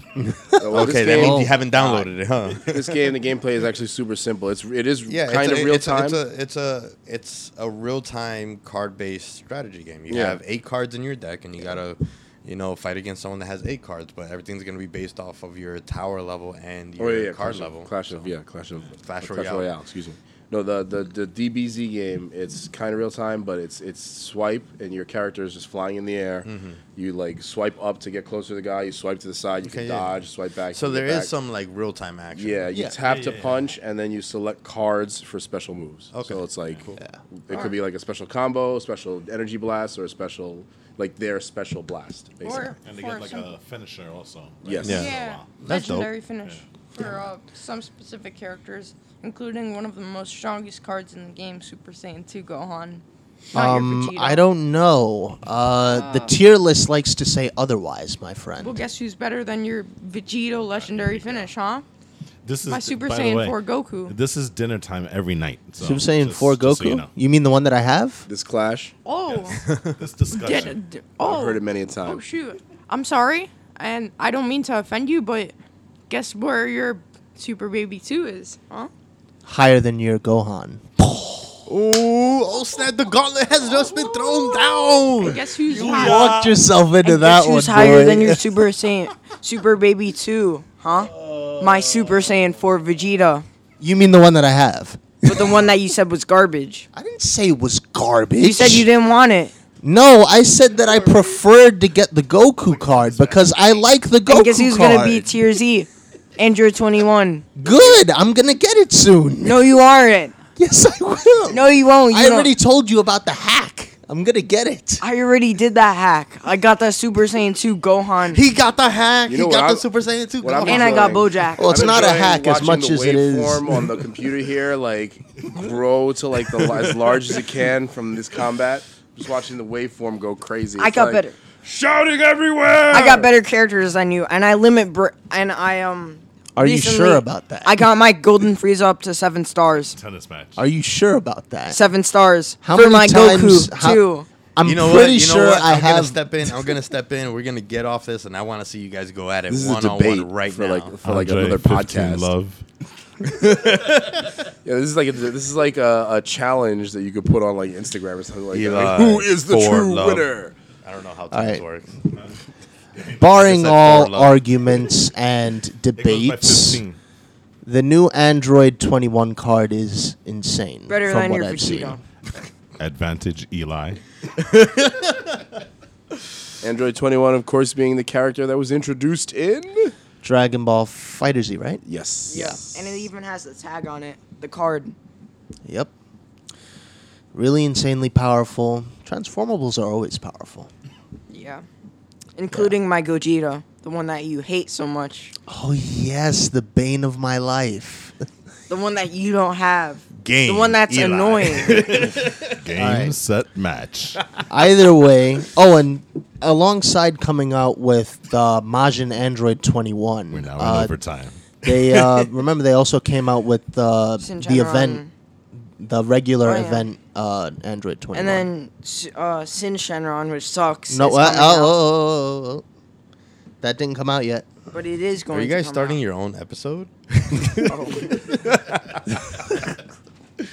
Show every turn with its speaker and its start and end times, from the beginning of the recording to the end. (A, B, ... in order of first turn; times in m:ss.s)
0:00.2-0:01.5 A
0:00.6-0:01.5 B
0:00.7-0:03.0 C
0:01.8-0:02.1 D
0:02.6-0:06.2 B
0:05.1-0:18.3 C
0:10.1-0:10.4 B
0:17.0-0:31.3 B
0:18.9-0:19.8 C
0:26.4-0:26.8 C
0:29.6-0:30.1 C
0:30.7-0:32.9 C
0:32.3-0:42.8 B
0:33.0-0:33.7 D
0:36.1-0:37.0 C
0:37.5-0:37.8 E
0:42.4-0:43.5 E
0:42.8-0:45.6 D
0:44.6-0:45.1 B
0:44.8-0:46.1 C
0:44.8-0:54.5 E
0:53.5-0:58.8 A
0:55.8-0:56.3 E
0:58.6-1:01.8 E
1:00.7-1:01.5 D
1:02.4-1:07.1 D
1:02.7-1:04.1 E
1:05.8-1:08.3 A
1:08.3-1:08.9 B
1:09.0-1:09.8 E
1:09.2-1:10.8 D
1:10.3-1:15.5 E
1:11.2-1:12.2 B
1:16.1-1:18.9 E
1:19.4-1:21.6 A
1:21.6-1:26.3 C
1:25.2-1:26.4 E
1:25.7-1:26.6 D
1:25.7-1:28.6 A
1:27.0-1:33.4 F
1:33.8-1:35.6 A
1:35.2-1:36.9 F
1:36.9-1:38.9 A
1:38.4-1:39.5 F
1:39.8-1:45.3 A
1:42.7-1:43.8 D
1:44.3-1:47.5 F
1:47.6-1:49.6 A
1:49.4-1:50.4 F
1:50.6-1:55.0 A
1:51.5-1:52.5 F
1:55.0-1:58.4 F
1:58.3-2:01.3 C
1:59.3-2:11.2 B
2:00.6-2:01.8 F
2:01.6-2:03.9 A
2:10.8-2:11.4 F
2:11.6-2:13.2 D
2:12.9-2:20.0 F
2:12.9-2:13.3 B
2:16.6-2:17.8 A
2:19.7-2:20.6 D
2:20.6-2:21.8 A
2:21.7-2:24.3 F
2:22.6-2:26.7 A
2:24.6-2:30.9 C
2:29.5-2:32.3 B
2:31.0-2:32.6 D
2:33.3-2:34.2 C
2:34.6-2:40.5 B
2:38.5-2:40.3 C
2:40.8-2:42.0 C
2:41.3-2:41.6 A
2:43.2-2:46.8 A
2:43.3-2:44.4 C
2:46.0-2:47.0 D
2:47.6-2:52.0 A
2:50.9-2:52.0 F
2:52.8-2:54.0 D
2:54.4-2:55.2 C
2:56.6-2:59.9 B
3:00.2-3:02.6 A
3:01.8-3:02.7 B
3:02.3-3:04.9 F
3:05.6-3:05.9 A
3:07.3-3:10.7 A
3:11.3-3:11.6 F
3:12.4-3:15.3 F
3:15.5-3:18.2 A
3:18.7-3:21.9 F
3:20.1-3:22.4 C
3:21.6-3:24.2 D
3:22.7-3:23.2 A
3:24.5-3:31.0 A
3:30.3-3:31.6 D
3:31.6-3:35.0 A
3:34.2-3:35.1 F
3:35.8-3:38.4 A
3:36.4-3:36.9 F
3:38.1-3:41.8 F
3:40.9-3:42.6 A
3:43.6-3:44.5 A
3:44.7-3:46.0 F
3:45.3-3:49.0 C
3:47.6-3:48.2 F